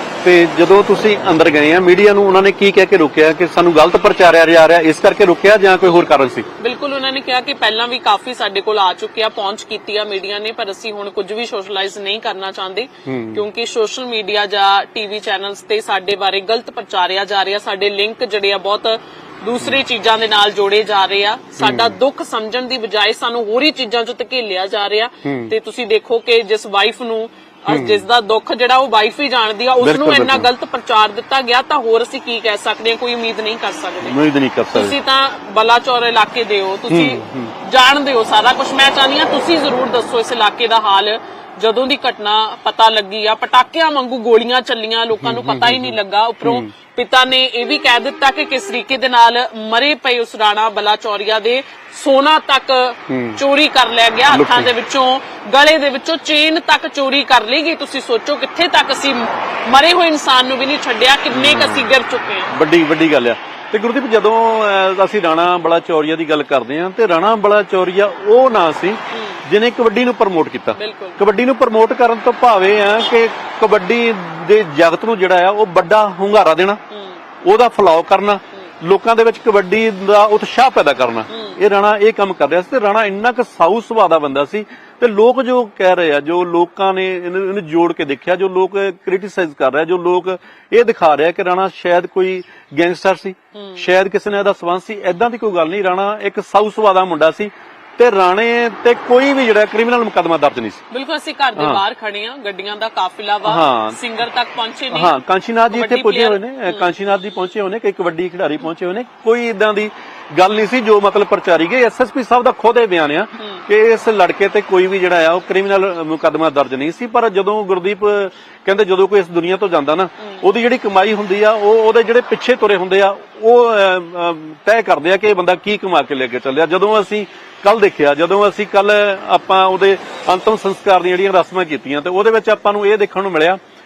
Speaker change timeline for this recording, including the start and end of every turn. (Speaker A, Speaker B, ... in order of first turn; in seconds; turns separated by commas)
Speaker A: 0.2-6.5, Speaker B: 6.6-34.2, Speaker A: 13.1-13.4, Speaker A: 21.6-22.0, Speaker A: 25.2-25.5, Speaker A: 27.7-28.1, Speaker A: 29.8-30.5, Speaker A: 34.0-35.0, Speaker B: 34.7-62.5, Speaker A: 36.9-37.5, Speaker A: 45.2-46.7, Speaker A: 53.1-53.4, Speaker A: 54.3-54.7, Speaker A: 61.3-61.9, Speaker A: 62.5-76.8, Speaker B: 69.1-69.4, Speaker B: 70.8-71.2, Speaker B: 76.9-77.2, Speaker A: 77.4-100.8, Speaker B: 81.3-81.6, Speaker B: 93.5-93.9, Speaker B: 100.9-105.2, Speaker A: 101.5-101.8, Speaker A: 103.4-104.0, Speaker A: 104.9-133.6, Speaker B: 105.7-106.9, Speaker B: 113.4-113.6